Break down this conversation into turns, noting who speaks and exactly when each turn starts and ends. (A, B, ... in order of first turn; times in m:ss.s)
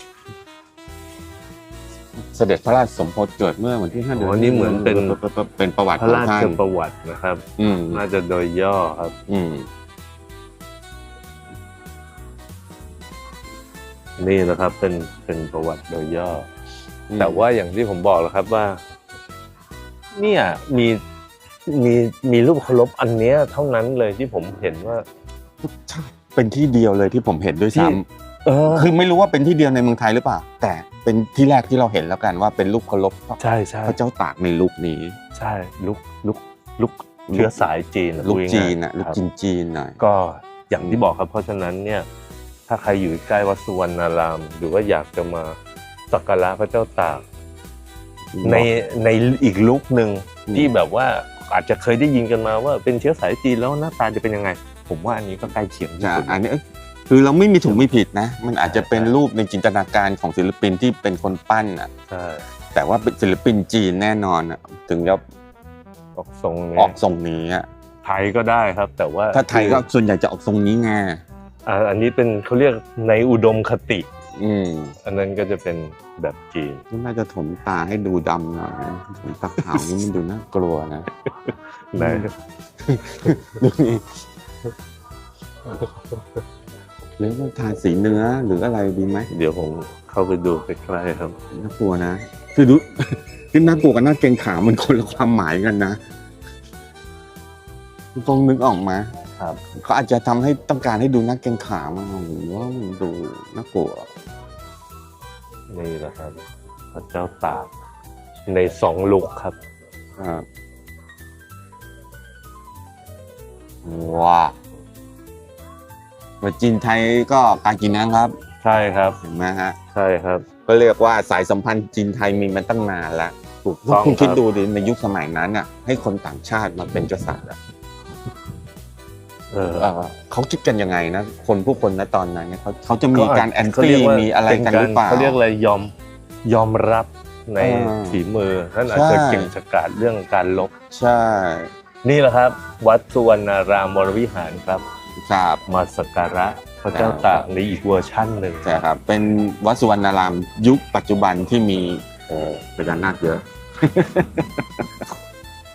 0:02.2-0:06.6 A
0:04.2-0:05.2 B
0:06.0-0:09.2 B
0:07.6-0:08.0 A
0:09.3-0:09.7 A
0:14.2-0:16.5 B
0:17.1-0:17.4 A
0:17.2-0:18.8 B
0:20.2-0:21.0 B
0:21.7-0:25.0 B
0:25.6-0:28.0 A
0:27.8-0:28.9 B
0:28.7-0:35.2 A
0:33.4-0:34.0 B
0:35.4-0:39.2 B
0:37.3-0:37.6 A
0:38.2-0:40.0 A
0:40.0-0:42.1 B
0:42.7-0:45.6 B
0:46.1-0:47.2 B
0:48.3-0:48.7 A
0:48.4-0:56.4 B
0:56.0-1:01.9 A
0:58.6-0:59.1 B
1:02.1-1:02.4 B
1:02.7-1:05.2 A
1:06.2-1:07.0 B
1:06.8-1:07.7 A
1:08.0-1:09.8 B
1:09.3-1:11.2 A
1:11.7-1:14.1 B
1:14.4-1:14.9 A
1:15.0-1:16.8 B
1:16.9-1:21.1 A
1:21.3-1:22.3 B
1:22.0-1:22.3 A
1:22.8-1:24.2 A
1:25.7-1:26.2 B
1:27.2-1:29.3 A
1:29.3-1:31.4 B
1:31.5-1:36.0 A
1:38.2-1:39.1 A
1:39.8-1:44.1 A
1:45.7-1:46.4 B
1:46.9-1:47.7 B
1:48.5-1:49.6 B
1:50.2-1:50.4 A
1:53.8-1:54.5 A
1:56.4-1:58.3 A
1:58.6-1:59.2 B
1:59.2-1:59.8 A
1:59.9-2:00.5 B
2:00.6-2:03.4 A
2:03.6-2:04.4 B
2:03.9-2:07.6 A
2:09.5-2:09.9 B
2:09.8-2:15.4 A
2:13.1-2:15.9 B
2:16.4-2:20.7 B
2:17.6-2:18.2 A
2:18.9-2:19.5 A
2:20.9-2:21.7 A
2:22.0-2:24.8 B
2:25.2-2:25.6 A
2:25.7-2:28.7 B
2:26.9-2:27.5 A
2:28.6-2:34.9 A